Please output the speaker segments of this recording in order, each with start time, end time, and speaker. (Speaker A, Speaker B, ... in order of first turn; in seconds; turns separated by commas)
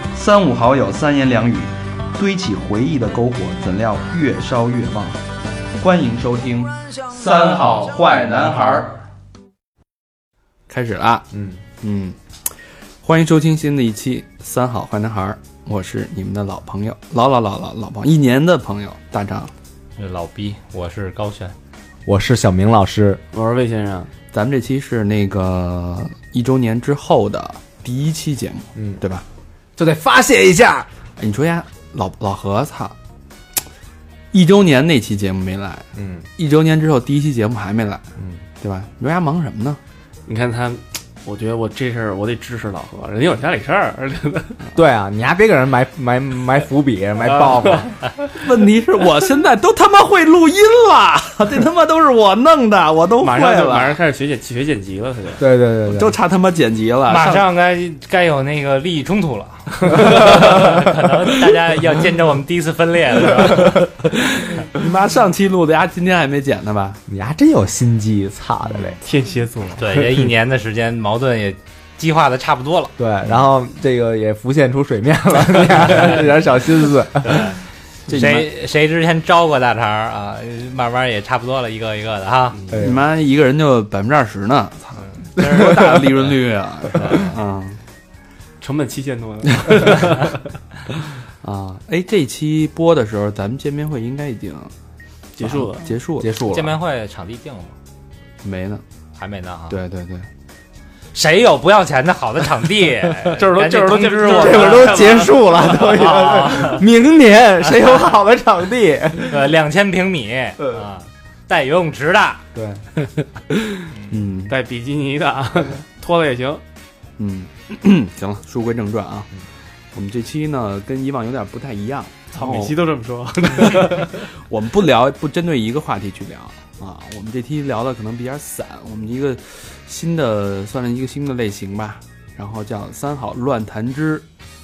Speaker A: 0.2-5.2, Speaker B: 0.3-0.7, Speaker B: 5.8-8.9, Speaker B: 10.7-11.3, Speaker C: 11.3-11.6, Speaker B: 11.8-12.2, Speaker B: 13.0-19.5, Speaker D: 20.0-21.6, Speaker C: 22.1-23.2, Speaker E: 23.3-24.1, Speaker B: 24.3-29.2, Speaker C: 28.8-29.0, Speaker C: 29.8-30.9, Speaker B: 31.2-33.0, Speaker B: 34.3-35.9, Speaker C: 36.0-36.3, Speaker B: 36.4-38.1, Speaker C: 38.2-38.4, Speaker B: 38.6-39.8, Speaker E: 40.3-44.6, Speaker C: 44.8-48.0, Speaker E: 47.2-47.9, Speaker B: 48.3-54.0, Speaker E: 53.2-55.4, Speaker C: 55.4-56.2, Speaker B: 55.9-57.5, Speaker D: 57.1-63.9, Speaker B: 64.1-67.0, Speaker C: 67.1-69.0, Speaker E: 69.0-70.0, Speaker D: 69.8-72.9, Speaker C: 73.0-77.5, Speaker D: 77.2-82.6, Speaker B: 78.1-78.5, Speaker C: 82.7-83.1, Speaker B: 82.7-87.8, Speaker C: 85.4-86.0, Speaker E: 88.6-90.4, Speaker B: 91.4-94.7, Speaker E: 95.4-95.9, Speaker B: 95.4-96.3, Speaker C: 96.2-96.8, Speaker D: 96.5-97.8, Speaker B: 98.4-98.8, Speaker D: 99.2-99.8, Speaker B: 99.7-100.3, Speaker D: 101.1-106.8, Speaker E: 103.3-106.0, Speaker C: 104.3-109.4, Speaker D: 109.2-112.5, Speaker C: 112.5-112.8, Speaker B: 114.1-114.5, Speaker E: 114.5-116.6, Speaker B: 117.2-119.3, Speaker B: 119.9-122.8, Speaker E: 122.3-124.2, Speaker D: 122.4-122.7, Speaker B: 124.2-134.3